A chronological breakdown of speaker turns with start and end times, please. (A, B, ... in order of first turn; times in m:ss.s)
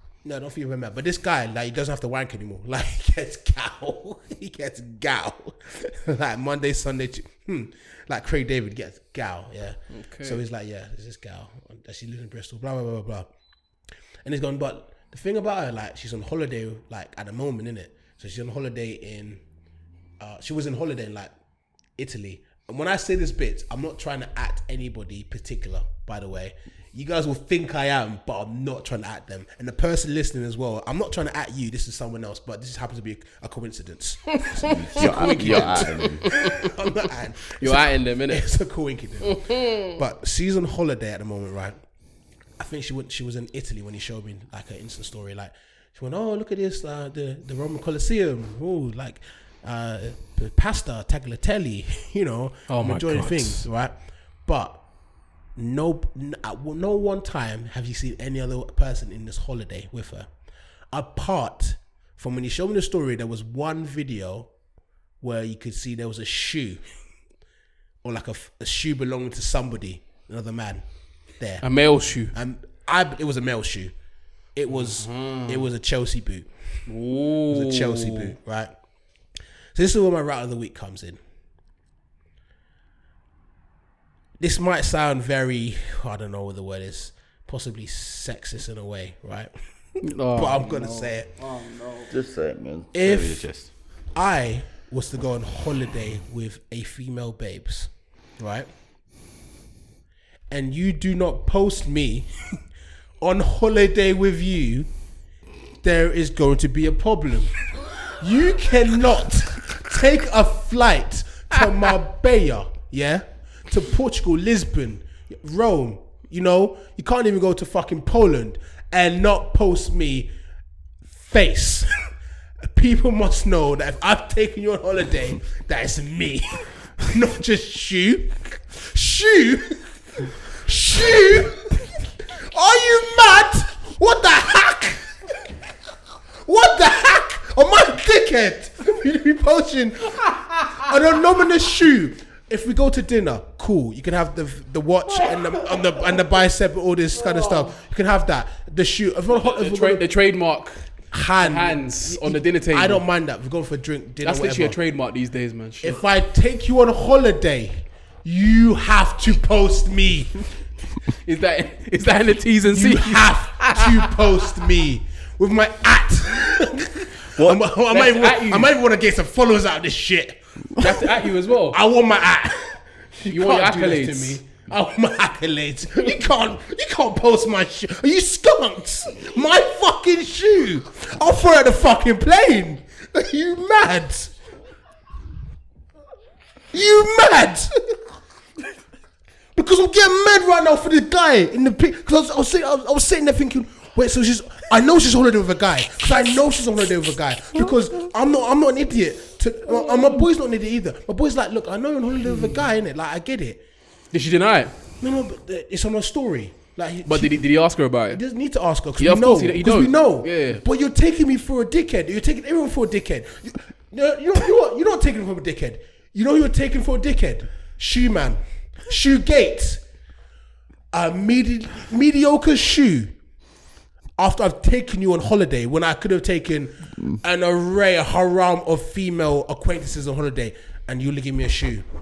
0:00.2-0:13.3 A
0:09.9-0:10.4 B
0:14.2-0:19.4 A
0:20.2-0:21.3 A
0:22.0-0:41.8 A
0:34.4-0:36.7 B
0:34.6-0:36.3 C
0:37.6-0:38.4 B
0:39.2-0:40.0 B
0:42.6-0:53.9 A
0:52.7-0:53.7 B
0:54.5-0:54.8 A
0:55.6-1:00.3 A
1:00.9-1:04.5 A
1:05.2-1:06.8 A
1:08.0-1:10.8 A
1:11.4-1:11.6 A
1:11.6-1:12.4 B
1:12.3-1:13.9 A
1:14.6-1:16.5 A
1:14.7-1:15.7 B
1:16.9-1:18.4 B
1:17.5-1:18.7 A
1:19.8-1:21.2 A
1:24.4-1:29.5 A
1:30.0-1:32.1 B
1:30.3-1:31.3 A
1:32.1-1:33.7 C
1:33.0-1:33.4 A
1:34.2-1:38.7 A
1:40.5-1:42.3 A
1:43.2-1:44.9 A
1:45.8-1:47.6 A
1:48.1-2:00.3 A
2:01.2-2:02.0 A
2:02.7-2:11.9 A
2:12.5-2:15.1 A
2:16.4-2:30.1 A
2:25.1-2:26.2 B
2:27.2-2:27.7 B
2:29.3-2:33.1 B
2:31.1-2:34.8 A
2:34.2-2:36.0 B
2:35.8-2:40.5 A
2:41.2-2:44.2 B
2:42.7-3:04.4 A
2:47.9-2:48.7 B
2:50.8-2:51.8 B
2:53.3-2:54.4 B
3:06.7-3:07.9 A
3:09.6-3:23.6 A
3:19.7-3:20.2 B
3:22.3-3:22.7 B
3:24.1-3:24.8 B
3:25.0-3:27.4 A
3:27.0-3:28.2 B
3:28.1-3:39.8 A
3:29.0-3:30.6 B
3:40.9-3:43.1 A
3:44.2-3:51.9 A